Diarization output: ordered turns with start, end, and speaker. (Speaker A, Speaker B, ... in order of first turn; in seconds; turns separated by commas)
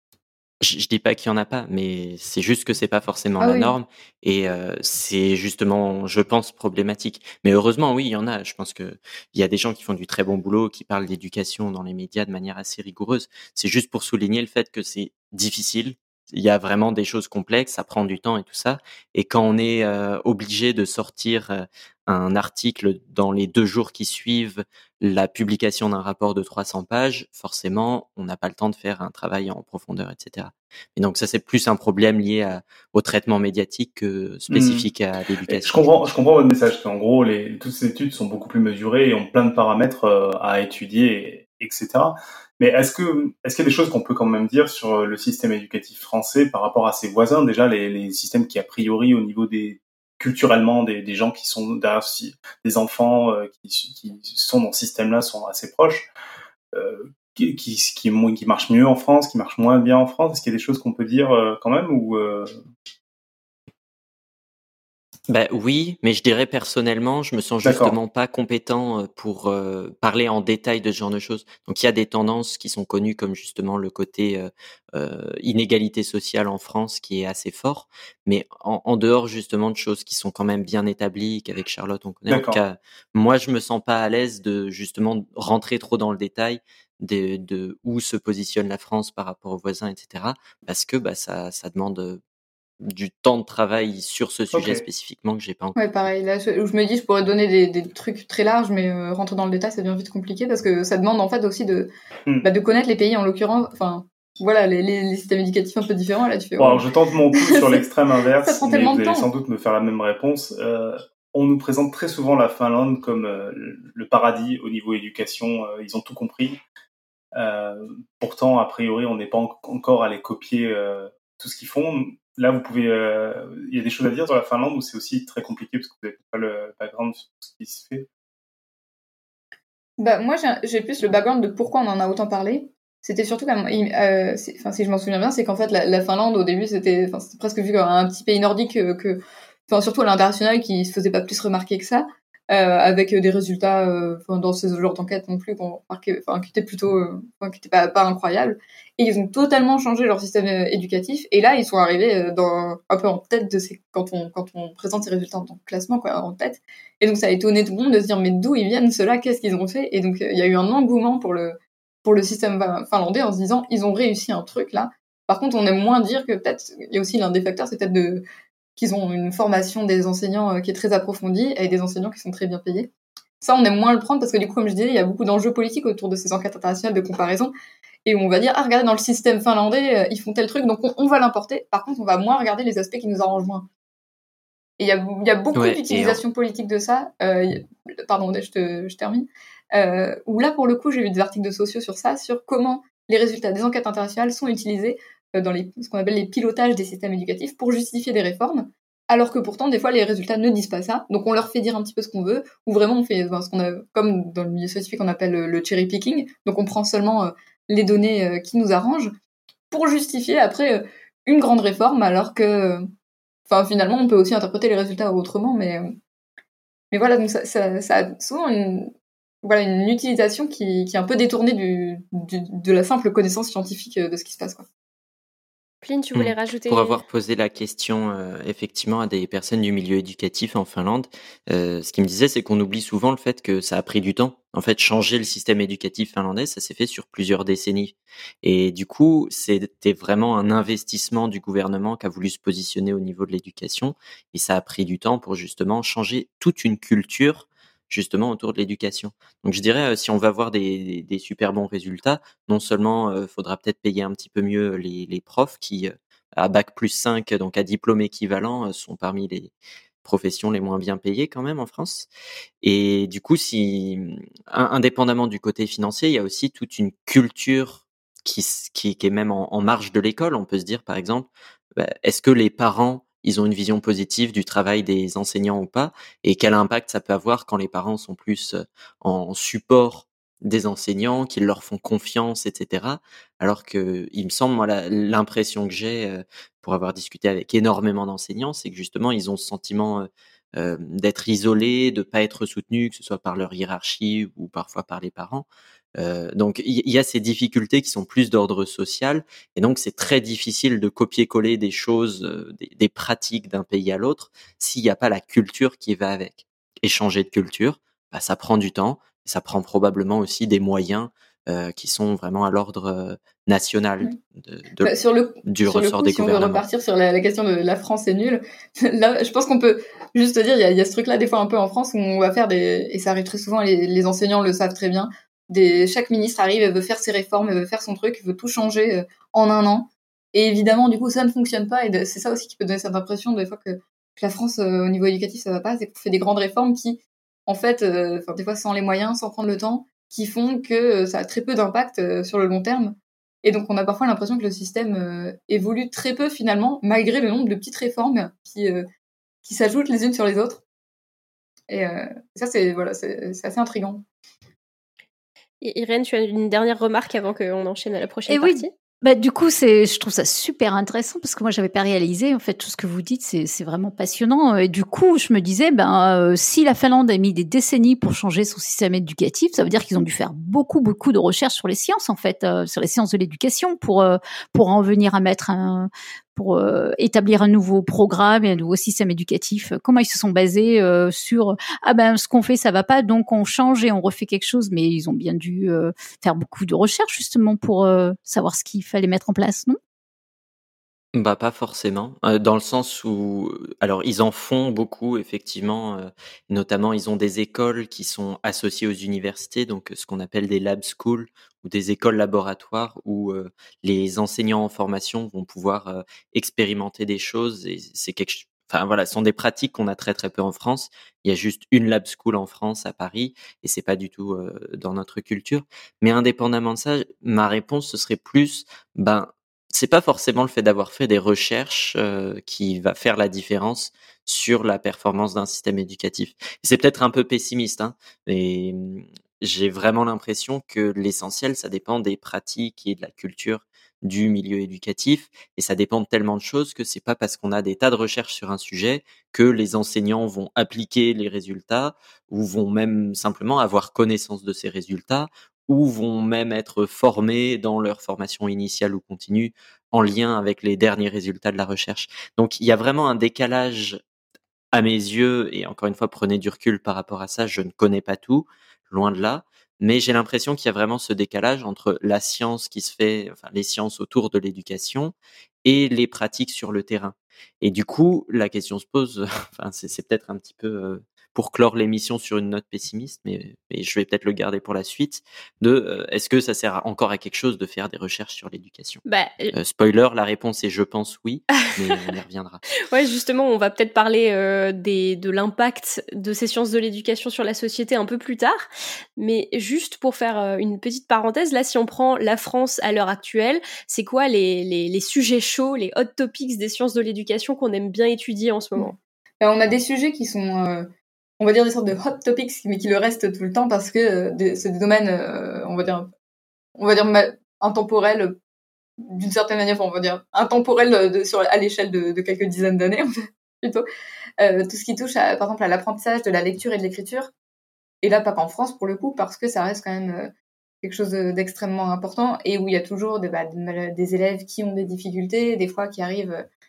Speaker A: 0.6-36.0, Speaker B: 3.4-3.8, Speaker C: 34.5-34.9, Speaker C: 35.5-56.1, Speaker C: 56.7-62.5, Speaker A: 65.3-92.2, Speaker C: 67.6-68.0, Speaker C: 82.3-82.6, Speaker A: 92.8-95.8, Speaker C: 94.5-94.8, Speaker B: 95.8-101.9, Speaker B: 102.4-109.3, Speaker C: 106.6-116.6, Speaker C: 117.3-128.1, Speaker B: 130.0-168.2, Speaker B: 168.8-177.5, Speaker B: 178.1-183.7, Speaker B: 184.8-209.1, Speaker A: 185.6-186.2, Speaker B: 209.7-212.8, Speaker B: 213.5-215.9, Speaker B: 216.9-218.9, Speaker B: 219.4-224.7, Speaker D: 225.8-227.0, Speaker A: 226.2-259.5, Speaker A: 260.0-262.1, Speaker A: 262.6-316.6, Speaker B: 314.8-348.9, Speaker B: 349.4-350.6, Speaker B: 351.7-354.0, Speaker D: 355.6-358.7, Speaker E: 358.3-389.8, Speaker A: 391.1-454.0, Speaker A: 454.7-482.6, Speaker D: 479.1-479.6, Speaker D: 482.9-498.9, Speaker B: 498.8-506.1, Speaker B: 506.8-508.4, Speaker B: 509.0-513.9, Speaker B: 514.4-517.3, Speaker B: 518.0-520.3, Speaker B: 520.8-526.5